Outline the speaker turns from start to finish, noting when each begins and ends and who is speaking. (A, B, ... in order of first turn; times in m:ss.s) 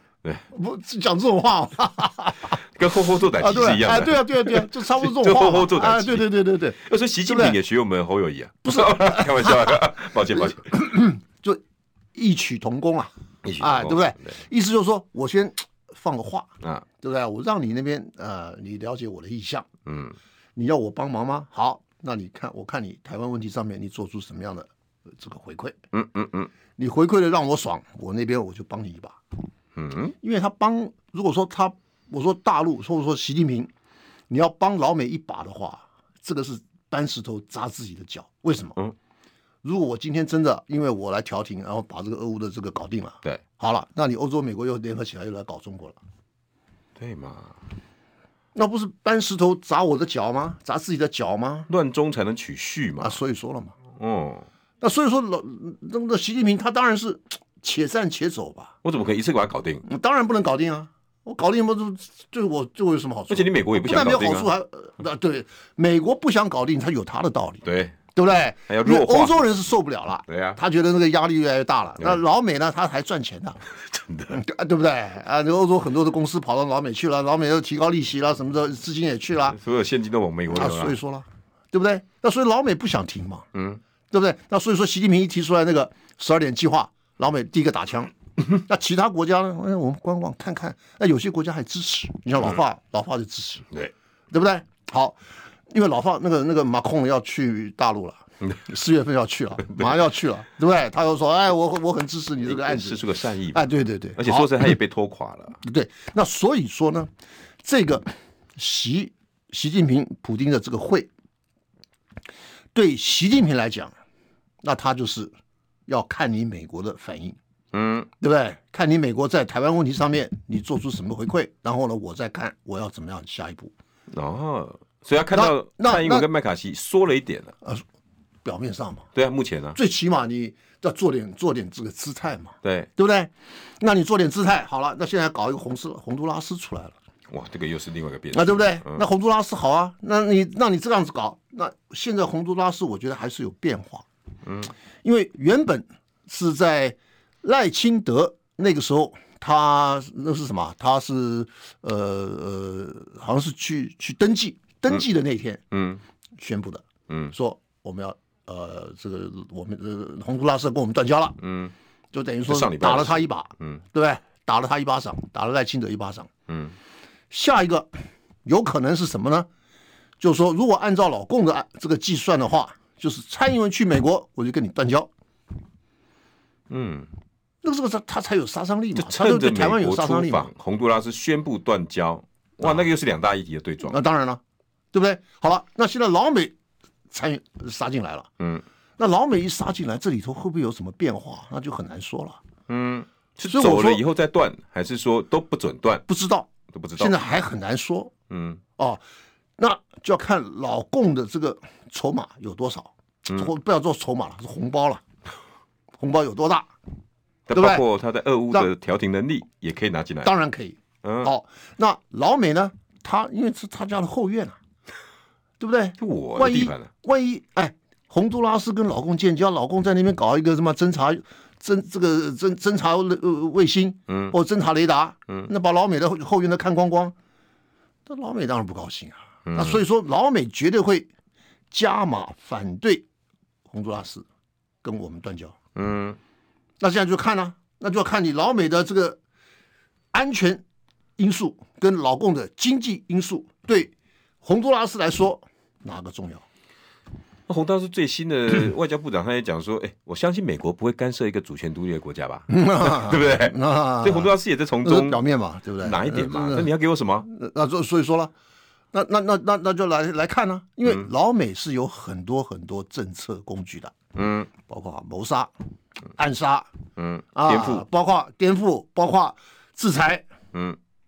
0:00.5-0:02.6 A
0:02.7-0:10.7 B
0:03.3-0:07.6 A
0:08.6-0:11.6 A
0:12.1-0:19.7 A
0:13.4-0:14.3 B
0:19.8-0:20.2 B
0:20.6-0:25.8 A
0:25.9-0:26.5 B
0:26.8-0:29.2 A
0:29.8-0:30.1 B
0:30.2-0:33.7 A
0:34.3-0:38.8 A
0:39.6-0:46.0 A
0:47.0-0:47.6 B
0:48.5-0:51.7 A
0:51.7-0:53.2 B
0:53.0-0:53.8 A
0:53.9-0:54.5 B
0:54.8-0:58.7 A
0:58.8-0:59.8 B
0:59.8-1:07.6 A
1:03.3-1:04.5 B
1:07.6-1:08.0 B
1:08.1-1:13.6 A
1:08.7-1:09.4 B
1:10.3-1:10.6 B
1:13.7-1:14.4 B
1:14.3-1:19.6 A
1:19.5-1:21.0 B
1:20.5-1:23.5 A
1:23.5-1:23.8 B
1:24.1-1:33.7 A
1:34.3-1:35.2 A
1:35.7-1:44.7 A
1:42.4-1:43.6 B
1:44.2-1:45.6 B
1:45.6-1:47.1 A
1:47.6-1:51.1 A
1:52.7-1:53.9 A
1:54.6-1:55.3 A
1:55.9-1:57.4 A
1:57.7-1:58.1 B
1:58.2-2:03.7 A
2:04.1-2:07.6 B
2:05.3-2:06.3 A
2:08.4-2:09.1 A
2:09.1-2:09.8 B
2:09.7-2:16.9 A
2:12.6-2:12.9 B
2:17.3-2:19.0 B
2:18.3-2:24.0 A
2:24.4-2:24.7 B
2:25.0-2:35.6 A
2:35.7-2:36.0 B
2:36.4-2:41.4 A
2:37.1-2:37.3 B
2:41.4-2:41.7 B
2:42.1-2:46.3 A
2:42.4-2:43.8 B
2:46.5-2:46.7 B
2:47.3-2:47.9 A
2:48.4-2:49.5 A
2:50.2-2:55.1 A
2:56.7-2:57.1 B
2:57.6-3:00.5 A
2:58.9-3:04.0 B
3:03.8-3:04.4 A
3:04.9-3:06.5 A
3:07.1-3:08.3 A
3:09.0-3:12.4 A
3:12.7-3:16.0 B
3:13.4-3:14.0 A
3:16.1-3:18.1 A
3:16.7-3:17.1 B
3:18.3-3:18.6 B
3:19.6-3:25.0 A
3:26.0-3:26.7 A
3:27.5-3:30.3 B
3:27.5-3:27.8 A
3:30.2-3:34.6 A
3:31.0-3:31.3 B
3:35.6-3:47.1 A
3:36.0-3:36.9 B
3:44.1-3:44.3 B
3:48.0-3:51.1 A
3:49.4-3:49.8 B
3:51.7-3:53.0 A
3:53.7-3:54.2 A
3:54.8-3:55.5 A
3:55.7-3:56.2 B
3:56.8-3:59.2 A
4:00.1-4:00.6 A
4:01.2-4:06.4 A
4:07.5-4:15.2 B
4:12.5-4:16.7 A
4:15.8-4:17.3 B
4:17.2-4:18.3 A
4:18.9-4:23.9 A
4:24.1-4:24.5 B
4:24.6-4:25.5 A
4:26.2-4:26.7 A
4:27.0-4:27.8 B
4:27.3-4:30.2 A
4:30.5-4:30.8 B